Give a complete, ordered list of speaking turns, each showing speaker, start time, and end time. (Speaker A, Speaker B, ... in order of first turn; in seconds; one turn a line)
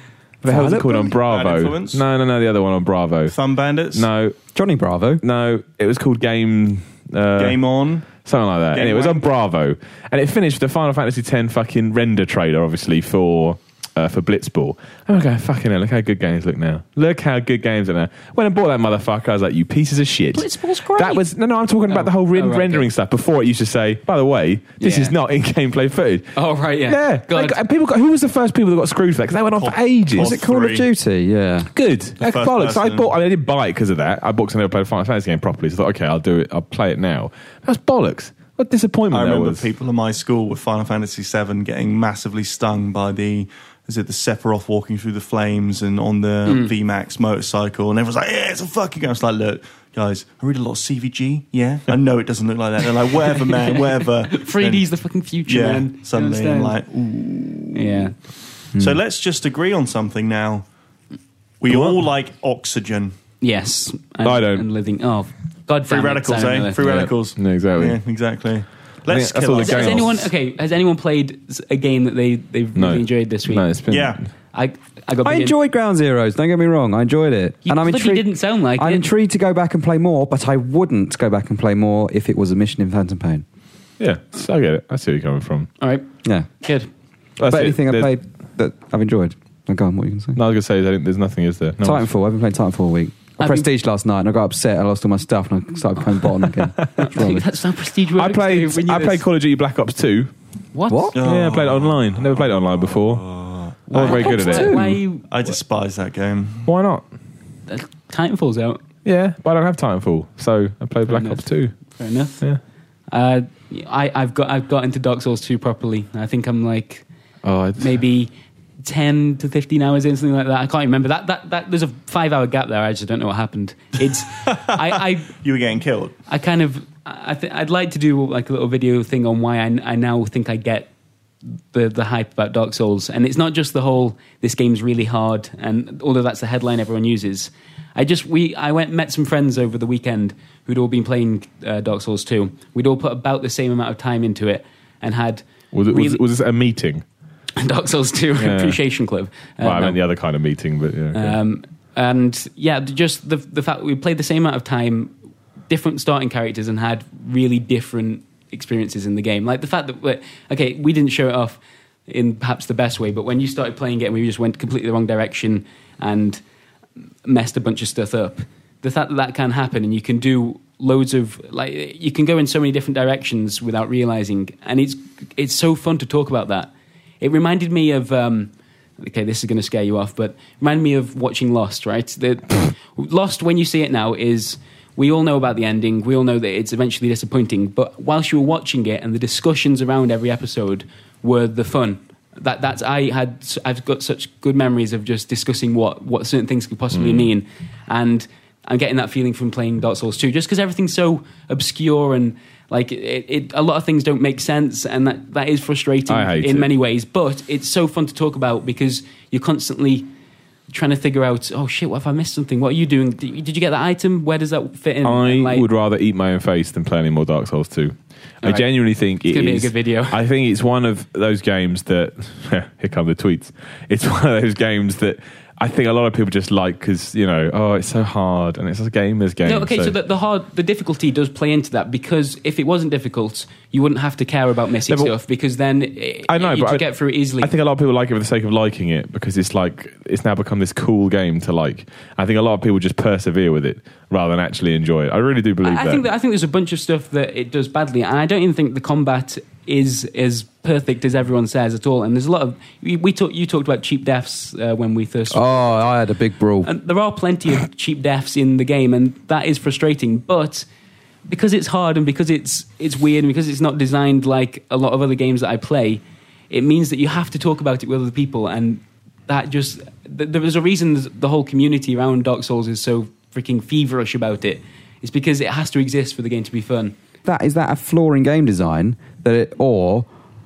Speaker A: 0.4-1.1
Speaker B: 0.4-3.4
Speaker C: 0.9-2.0
Speaker C: 3.3-4.1
Speaker B: 4.0-4.4
Speaker A: 4.5-5.2
Speaker B: 5.2-30.4
Speaker C: 7.4-8.1
Speaker C: 8.7-9.3
Speaker D: 20.3-21.2
Speaker D: 21.9-22.9
Speaker D: 24.8-25.1
Speaker D: 26.4-27.6
Speaker C: 29.6-30.9
Speaker A: 30.1-31.7
Speaker B: 31.7-39.7
Speaker C: 32.2-33.1
Speaker C: 39.1-54.9
Speaker D: 46.5-46.7
Speaker D: 54.3-56.8
Speaker C: 55.5-58.1
Speaker D: 57.7-58.1
Speaker C: 58.8-60.7
Speaker C: 61.6-63.2
Speaker B: 61.7-62.0
Speaker D: 63.4-66.8
Speaker B: 64.2-64.7
Speaker C: 65.9-70.2
Speaker B: 66.8-68.0
Speaker B: 69.1-70.3
Speaker D: 69.6-73.7
Speaker B: 72.8-74.2
Speaker C: 73.9-74.2
Speaker D: 74.5-75.5
Speaker A: 75.2-83.5
Speaker D: 77.6-79.1
Speaker B: 84.0-85.7
Speaker D: 85.8-86.1
Speaker D: 86.6-86.9
Speaker B: 87.4-88.1
Speaker A: 87.5-90.4
Speaker B: 90.4-92.1
Speaker A: 91.8-97.5
Speaker D: 93.4-93.7
Speaker B: 96.5-97.1
Speaker D: 97.0-99.2
Speaker B: 98.2-100.3
Speaker D: 100.7-101.2
Speaker A: 100.9-101.2
Speaker C: 101.1-104.7
Speaker B: 101.2-103.3
Speaker D: 103.9-105.3
Speaker B: 103.9-104.7
Speaker A: 104.0-105.0
Speaker C: 105.3-106.7
Speaker B: 106.7-107.0
Speaker D: 107.7-108.8
Speaker B: 109.0-111.7
Speaker D: 111.1-112.4
Speaker D: 113.1-117.0
Speaker B: 117.4-118.0
Speaker D: 117.8-125.3
Speaker C: 124.5-124.8
Speaker C: 125.3-126.1
Speaker D: 126.3-130.9
Speaker D: 131.6-146.2
Speaker B: 145.7-147.0
Speaker D: 147.6-150.0
Speaker B: 148.4-148.8
Speaker B: 149.6-151.4
Speaker D: 151.1-155.1
Speaker D: 155.7-166.4
Speaker D: 167.2-210.1
Speaker B: 196.9-197.3
Speaker B: 206.1-206.7
Speaker D: 210.7-215.7
Speaker B: 215.0-229.9
Speaker D: 219.3-220.2
Speaker D: 229.4-237.5
Speaker B: 234.9-235.1
Speaker B: 236.3-236.9
Speaker B: 237.4-246.1
Speaker D: 245.6-255.9
Speaker A: 255.3-256.7
Speaker D: 256.6-260.7
Speaker D: 261.3-276.9
Speaker A: 277.2-280.1